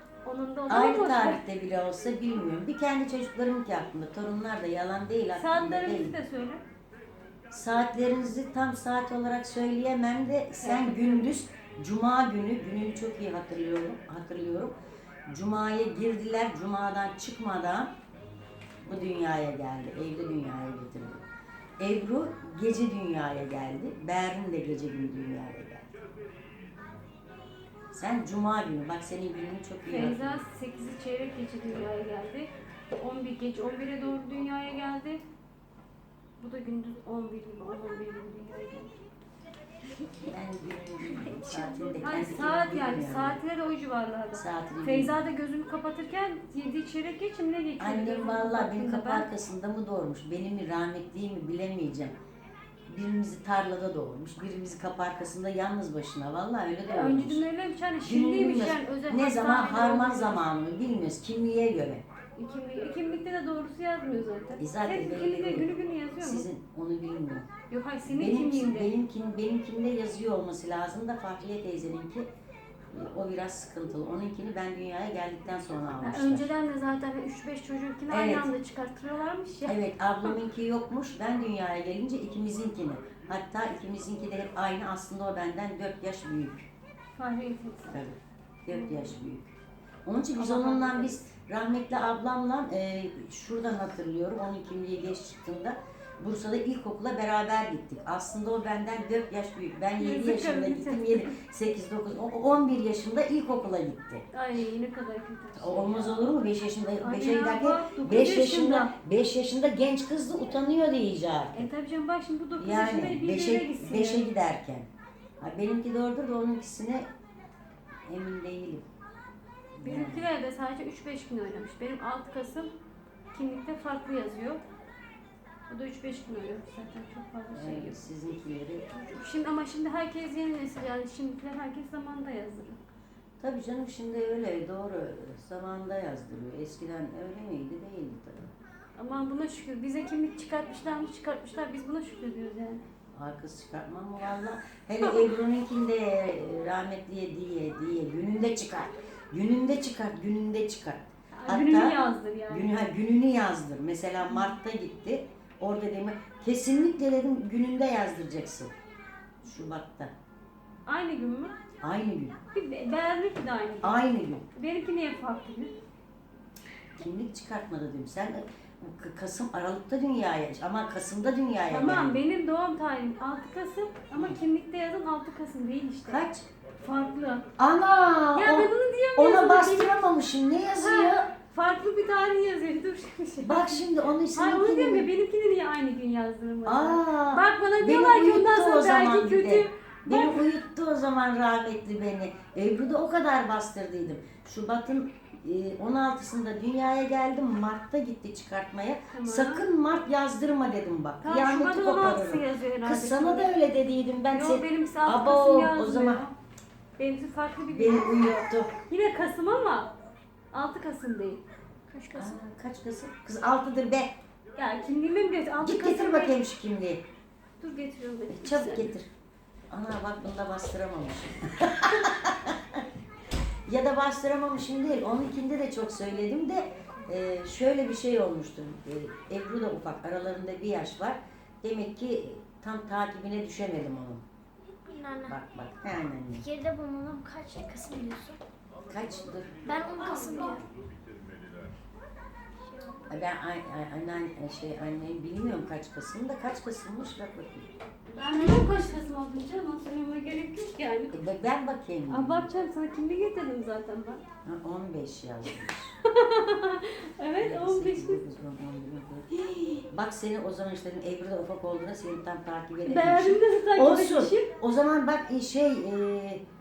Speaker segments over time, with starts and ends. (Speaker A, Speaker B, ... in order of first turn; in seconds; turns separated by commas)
Speaker A: 0.2-1.4, Speaker B: 0.7-6.1, Speaker A: 5.3-6.6, Speaker B: 7.5-14.7, Speaker A: 10.6-11.3, Speaker B: 15.3-17.9, Speaker B: 18.8-21.2, Speaker B: 21.8-26.0, Speaker B: 27.9-30.4, Speaker A: 29.9-35.2, Speaker A: 36.4-38.9, Speaker B: 40.2-43.4, Speaker C: 41.0-42.0, Speaker A: 42.0-49.3, Speaker B: 44.3-45.2, Speaker B: 47.8-52.1, Speaker B: 52.9-57.4, Speaker A: 56.9-60.4, Speaker B: 58.0-62.0, Speaker A: 62.4-66.5, Speaker B: 64.6-67.5, Speaker A: 67.7-68.9, Speaker B: 68.0-72.3, Speaker B: 72.9-76.5, Speaker A: 76.0-80.3, Speaker B: 78.1-78.5, Speaker B: 79.7-86.7, Speaker A: 87.2-88.0, Speaker B: 87.9-89.5, Speaker A: 88.7-89.2, Speaker B: 90.0-104.2, Speaker A: 90.4-91.2, Speaker A: 100.0-101.3, Speaker A: 104.3-105.9, Speaker B: 105.5-111.7, Speaker A: 107.0-108.9, Speaker A: 111.5-114.3, Speaker B: 112.6-114.9, Speaker B: 115.4-117.1, Speaker B: 118.1-118.8, Speaker B: 119.8-120.3, Speaker A: 119.8-122.7, Speaker A: 123.3-124.6, Speaker A: 125.7-128.0, Speaker B: 127.5-129.1, Speaker A: 129.0-132.8, Speaker B: 133.4-138.5, Speaker A: 138.9-142.8, Speaker B: 143.1-152.0, Speaker A: 151.3-152.7, Speaker B: 152.5-158.7, Speaker A: 154.3-154.5, Speaker B: 159.4-160.1, Speaker A: 160.9-161.5, Speaker B: 161.8-162.3, Speaker A: 162.5-164.0, Speaker B: 163.8-164.4, Speaker A: 164.5-165.7, Speaker B: 167.0-172.2, Speaker A: 171.7-176.2, Speaker B: 176.1-176.4, Speaker A: 176.8-177.5, Speaker B: 177.6-181.3, Speaker A: 178.3-180.0, Speaker A: 180.8-190.4, Speaker B: 183.4-185.1, Speaker B: 186.7-206.2, Speaker A: 199.1-199.7, Speaker A: 201.2-203.5, Speaker A: 204.3-206.3, Speaker A: 207.0-208.3, Speaker B: 207.7-208.8, Speaker A: 208.9-209.9, Speaker A: 210.5-211.4, Speaker C: 211.9-212.4, Speaker B: 212.1-214.2, Speaker A: 214.6-216.3, Speaker B: 215.6-217.0, Speaker A: 217.6-218.9, Speaker B: 218.3-219.1, Speaker B: 219.7-222.8, Speaker B: 223.7-234.2, Speaker C: 234.8-235.3, Speaker B: 235.3-236.4, Speaker C: 236.4-238.4, Speaker B: 238.9-239.6, Speaker C: 239.6-240.6, Speaker A: 239.7-240.6, Speaker C: 242.6-243.1, Speaker B: 243.1-247.7, Speaker A: 248.1-251.2, Speaker C: 248.3-248.7, Speaker B: 251.1-252.5, Speaker A: 252.1-254.2, Speaker B: 254.4-255.9, Speaker A: 256.0-258.2, Speaker B: 257.4-259.3, Speaker A: 259.3-259.9, Speaker B: 259.9-266.4, Speaker A: 262.8-264.5